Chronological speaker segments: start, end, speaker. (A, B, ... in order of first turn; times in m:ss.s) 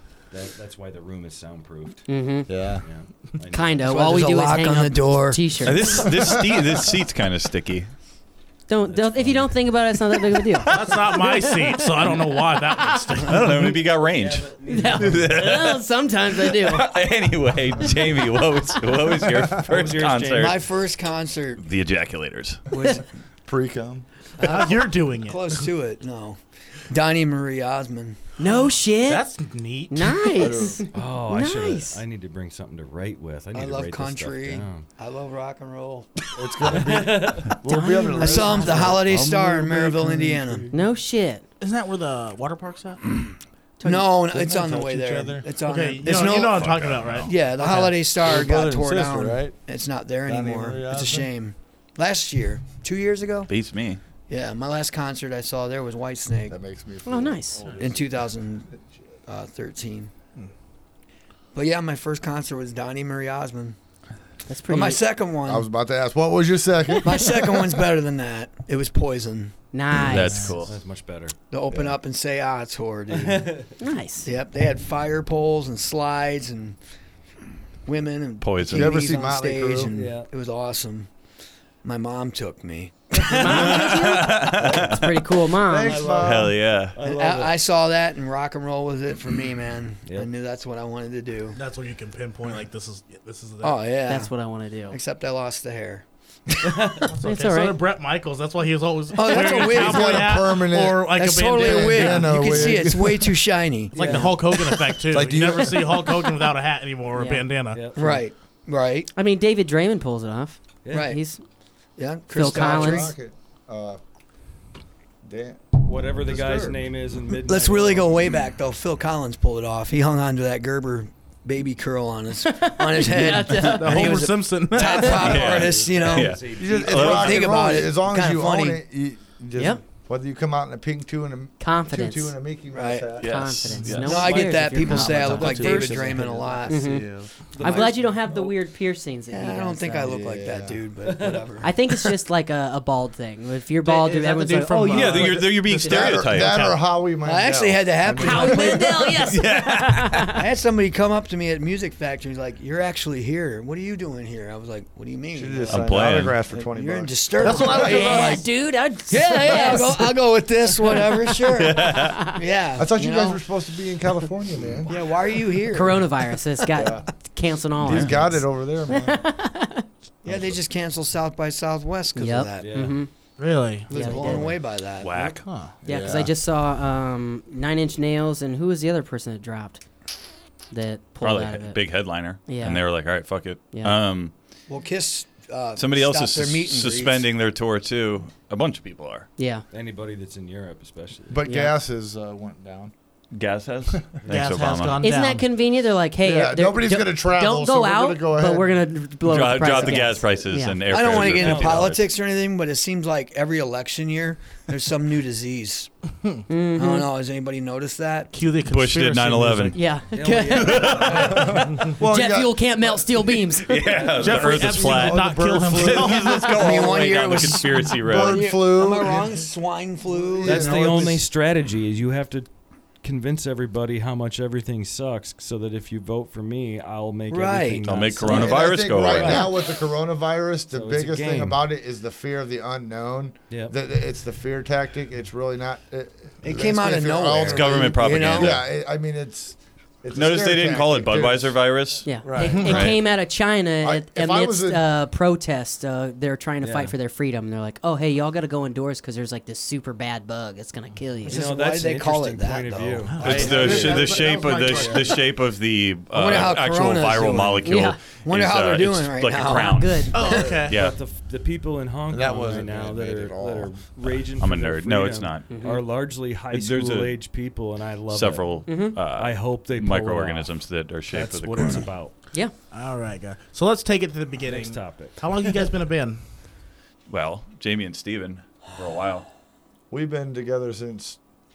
0:00.3-0:02.1 A
0:02.1-0:02.5 B
0:02.5-0:02.8 C
0:02.8-0:04.4 A
0:03.5-0:06.1 B
0:03.9-0:05.7 D
0:05.6-0:07.9 E
0:06.1-0:06.6 C
0:08.7-0:11.8 B
0:08.9-0:09.5 A
0:10.6-0:13.8 F
0:13.2-0:15.8 E
0:14.1-0:15.3 A
0:14.7-0:16.9 B
0:16.3-0:20.6 E
0:19.6-0:20.6 A
0:20.4-0:21.6 D
0:21.6-0:22.6 E
0:22.7-0:23.0 D
0:23.4-0:24.0 C
0:24.4-0:28.2 D
0:24.4-0:25.6 F
0:28.4-0:29.2 B
0:29.0-0:30.5 F
0:29.9-0:32.0 B
0:30.4-0:30.8 C
0:30.9-0:34.9 A
0:33.5-0:37.1 D
0:36.4-0:40.8 C
0:36.6-0:37.6 A
0:37.5-0:39.0 B
0:38.1-0:40.6 D
0:40.7-0:41.4 B
0:41.6-0:43.3 F
0:43.8-0:44.1 B
0:43.8-0:53.5 D
0:44.3-0:45.5 C
0:45.6-0:47.9 F
0:46.0-0:46.6 C
0:46.6-0:47.3 E
0:47.6-0:49.6 C
0:50.2-0:51.3 C
0:53.5-0:54.0 E
0:54.3-0:56.6 D
0:56.5-0:58.1 C
0:57.0-0:57.6 B
0:57.8-0:58.7 D
0:59.3-1:00.1 D
1:01.5-1:03.8 D
1:04.5-1:05.0 B
1:04.7-1:05.6 D
1:05.4-1:07.5 C
1:07.0-1:09.5 D
1:09.7-1:10.5 B
1:10.0-1:10.7 E
1:10.6-1:11.3 A
1:11.5-1:13.5 D
1:11.7-1:11.9 C
1:13.1-1:13.7 A
1:13.8-1:14.3 B
1:14.2-1:16.8 D
1:17.8-1:21.1 D
1:18.4-1:19.0 E
1:18.7-1:19.9 C
1:19.9-1:20.3 A
1:21.8-1:24.2 D
1:23.2-1:26.1 B
1:23.4-1:25.2 E
1:24.6-1:25.0 C
1:25.6-1:26.5 C
1:25.8-1:27.6 A
1:26.2-1:27.0 E
1:27.0-1:31.6 D
1:30.0-1:30.3 A
1:31.5-1:33.8 F
1:33.6-1:34.3 D
1:34.1-1:35.0 B
1:34.9-1:36.9 D
1:36.7-1:37.1 A
1:37.1-1:42.8 F
1:37.2-1:37.8 B
1:39.1-1:40.3 D
1:39.4-1:43.4 C
1:41.1-1:45.0 D
1:44.0-1:47.8 F
1:44.0-1:44.4 A
1:45.1-1:46.1 C
1:47.1-1:47.4 B
1:47.7-1:48.2 A
1:47.9-1:49.1 D
1:49.1-1:51.4 B
1:50.8-1:51.1 A
1:50.9-1:51.2 D
1:52.0-1:53.1 D
1:52.3-1:53.1 B
1:52.4-1:54.0 C
1:55.2-1:55.6 C
1:55.8-1:58.3 A
1:56.2-1:56.8 C
1:57.3-2:08.8 D
2:02.4-2:04.0 B
2:03.2-2:05.6 F
2:03.6-2:04.3 C
2:04.9-2:07.5 A
2:05.0-2:07.6 E
2:06.5-2:13.4 C
2:11.6-2:12.3 B
2:12.7-2:13.1 D
2:13.2-2:14.5 E
2:13.2-2:15.7 B
2:13.8-2:14.1 F
2:14.0-2:17.0 D
2:14.9-2:17.8 C
2:15.2-2:17.0 A
2:15.4-2:16.1 F
2:16.7-2:17.0 B
2:17.5-2:18.5 A
2:17.6-2:20.1 B
2:19.3-2:21.7 D
2:20.0-2:20.8 C
2:21.0-2:21.5 A
2:21.6-2:26.0 B
2:23.8-2:26.8 F
2:24.9-2:26.6 E
2:25.5-2:28.8 C
2:27.2-2:29.2 D
2:28.2-2:30.4 B
2:29.2-2:30.3 E
2:30.3-2:38.4 D
2:35.3-2:38.4 C
2:35.7-2:36.4 E
2:37.4-2:42.4 B
2:39.1-2:43.4 D
2:41.5-2:42.2 E
2:42.8-2:45.0 C
2:44.8-2:46.1 D
2:45.7-2:49.8 B
2:46.8-2:47.1 C
2:47.8-2:49.2 C
2:47.9-2:48.1 E
2:50.2-2:52.9 D
2:50.3-2:50.5 C
2:52.2-2:53.1 B
2:52.6-2:53.0 A
2:53.4-2:54.2 F
2:53.9-2:54.4 B
2:53.9-2:55.4 D
2:55.0-2:55.4 E
2:55.3-2:55.7 F
2:55.8-2:56.3 C
2:55.8-2:59.8 B
3:00.7-3:01.8 B
3:01.2-3:04.3 E
3:02.4-3:02.8 B
3:04.7-3:07.2 D
3:05.8-3:09.3 E
3:09.4-3:09.6 B
3:09.7-3:11.5 A
3:11.3-3:12.9 C
3:11.4-3:11.7 B
3:13.3-3:15.0 E
3:14.3-3:15.4 F
3:15.0-3:20.8 B
3:16.2-3:18.8 C
3:19.2-3:22.0 E
3:20.9-3:25.9 D
3:20.9-3:21.9 A
3:26.5-3:27.1 B
3:26.8-3:28.3 D
3:28.3-3:29.8 F
3:28.6-3:29.8 E
3:29.7-3:34.1 B
3:30.1-3:31.6 A
3:30.4-3:31.8 E
3:31.3-3:33.5 C
3:31.7-3:31.9 F
3:33.7-3:38.5 E
3:34.1-3:36.5 F
3:34.2-3:36.8 C
3:36.5-3:41.2 D
3:38.0-3:39.5 C
3:40.1-3:41.2 C
3:40.4-3:42.5 A
3:43.0-3:49.5 A
3:47.3-3:48.5 D
3:47.8-3:49.5 E
3:48.2-4:01.5 C
3:50.7-3:51.6 A
3:56.4-3:58.6 D
3:57.4-3:58.6 E
4:00.1-4:03.0 E
4:02.0-4:11.5 B
4:02.2-4:02.8 C
4:02.4-4:02.8 F
4:03.8-4:04.8 C
4:06.6-4:06.9 A
4:11.2-4:14.1 A
4:11.3-4:13.8 D
4:13.1-4:15.1 F
4:13.2-4:20.9 E
4:13.3-4:15.1 C
4:16.1-4:20.5 D
4:17.6-4:18.0 B
4:19.4-4:20.2 B
4:20.1-4:20.8 F
4:20.2-4:30.5 A
4:22.1-4:23.7 C
4:24.4-4:25.6 E
4:25.5-4:25.8 B
4:26.5-4:27.1 E
4:28.1-4:31.9 E
4:28.7-4:29.0 B
4:31.1-4:32.1 A
4:32.7-4:36.2 F
4:34.4-4:35.6 A
4:37.1-4:39.3 E
4:39.9-4:41.2 C